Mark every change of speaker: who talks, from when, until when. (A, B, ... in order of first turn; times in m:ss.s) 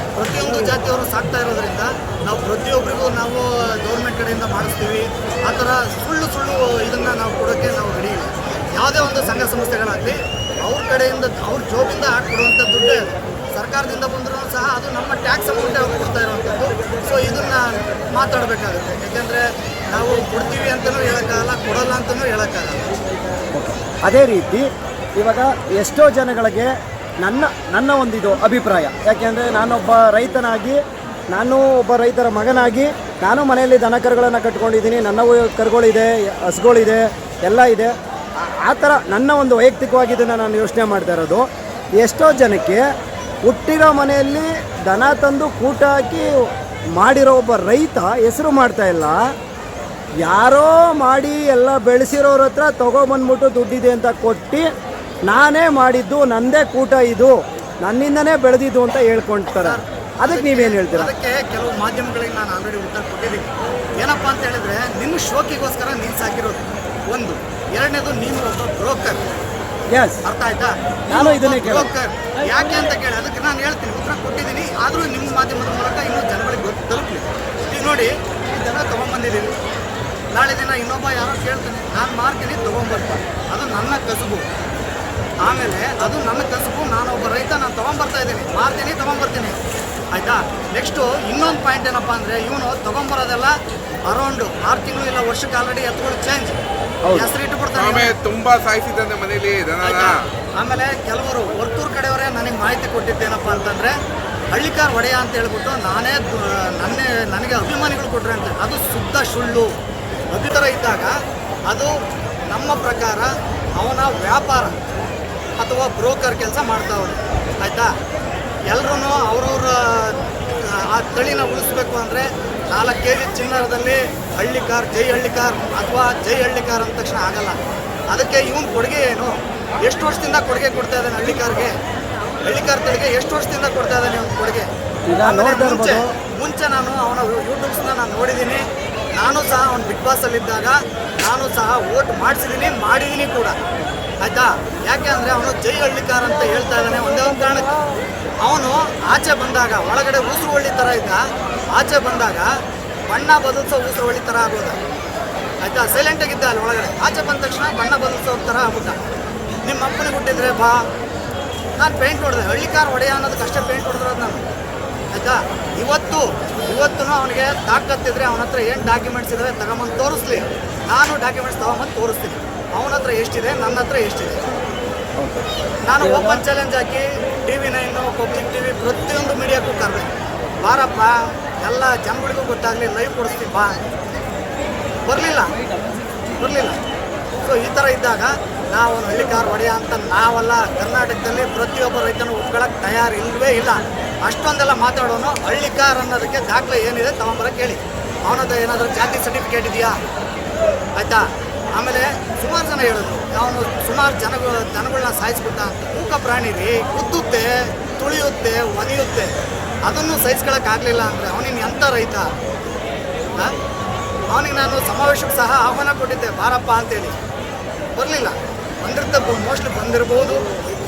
0:00.1-0:13.0 A
0:13.5-0:22.9 A
0:23.5-0:24.7 B
0:25.2-0:26.7 B
0:27.2-0:30.8 B
0:31.3-0:41.4 B
0:42.0-0:42.8 B
0:43.4-0:46.3 B
0:47.0-0:49.2 B
0:50.2-0:54.6 B
0:55.3-1:01.1 B
0:59.5-1:03.5 A
1:04.0-1:09.2 A
1:09.9-1:10.2 B
1:10.2-1:19.5 A
1:11.1-1:11.9 B
1:20.3-1:24.4 A
1:25.4-1:29.6 A
1:30.1-1:33.5 A
1:34.1-1:36.6 A
1:37.0-1:37.3 B
1:37.1-1:38.1 A
1:37.7-1:40.2 C
1:39.8-1:43.9 A
1:44.5-1:49.7 A
1:50.3-1:51.1 A
1:51.7-1:51.9 A
1:52.5-1:54.8 A
1:55.6-1:57.9 A
1:58.7-2:07.6 A
2:08.1-2:11.7 A
2:12.4-2:14.7 A
2:15.1-2:16.1 B
2:15.2-2:18.6 A
2:19.1-2:23.6 A
2:24.2-2:27.7 A
2:26.4-2:27.7 B
2:28.4-2:32.5 A
2:33.1-2:34.8 A
2:35.6-2:39.0 A
2:39.6-2:40.8 A
2:41.8-2:44.4 A
2:45.1-2:54.4 A
2:55.2-2:55.4 B
2:55.8-3:00.1 A
2:56.0-2:56.4 B
3:00.6-3:03.8 A
3:05.0-3:05.5 A
3:06.4-3:06.8 A
3:07.4-3:20.0 A
3:21.0-3:29.3 A
3:29.8-3:32.3 A
3:34.3-3:37.1 A
3:38.0-3:40.4 A